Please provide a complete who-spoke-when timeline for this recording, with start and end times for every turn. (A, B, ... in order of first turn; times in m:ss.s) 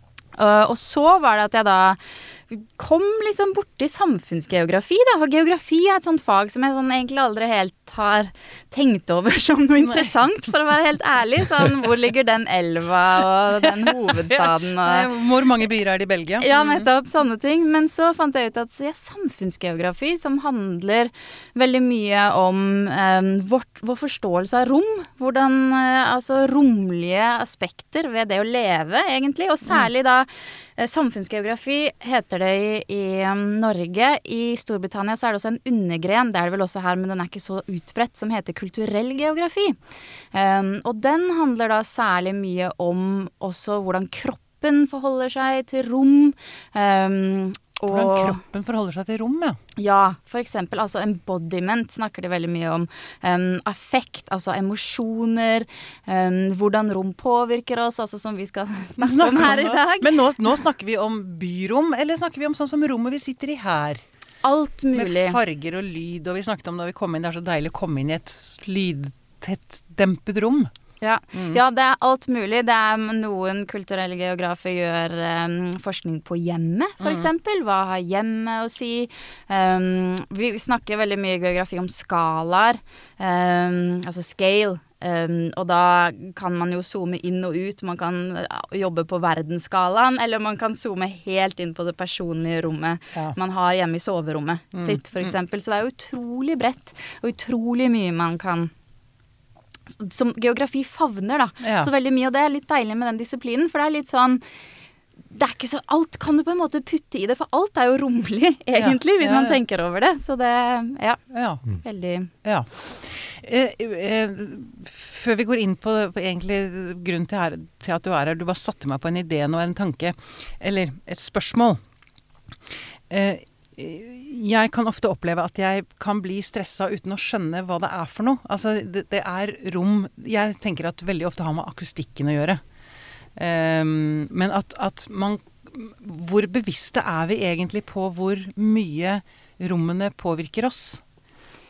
0:00.3-0:15.1 A
0:09.8-0:10.2 B
0:14.3-0:16.8 B
0:16.4-0:39.8 A
0:40.3-0:48.4 A
0:47.9-0:49.6 B
0:49.8-1:00.1 A
0:59.0-1:04.0 B
1:04.4-1:05.4 A
1:04.9-1:10.7 B
1:11.0-1:38.7 A
1:11.3-1:11.6 B
1:17.0-1:17.2 B
1:34.7-1:35.3 B
1:39.9-1:44.4 A
1:41.6-1:41.9 B
1:45.3-1:51.2 A
1:48.8-1:49.6 B
1:51.3-1:51.6 B
1:51.8-1:52.3 A
1:52.4-2:01.8 B
2:03.1-2:12.6 B
2:13.4-2:21.0 B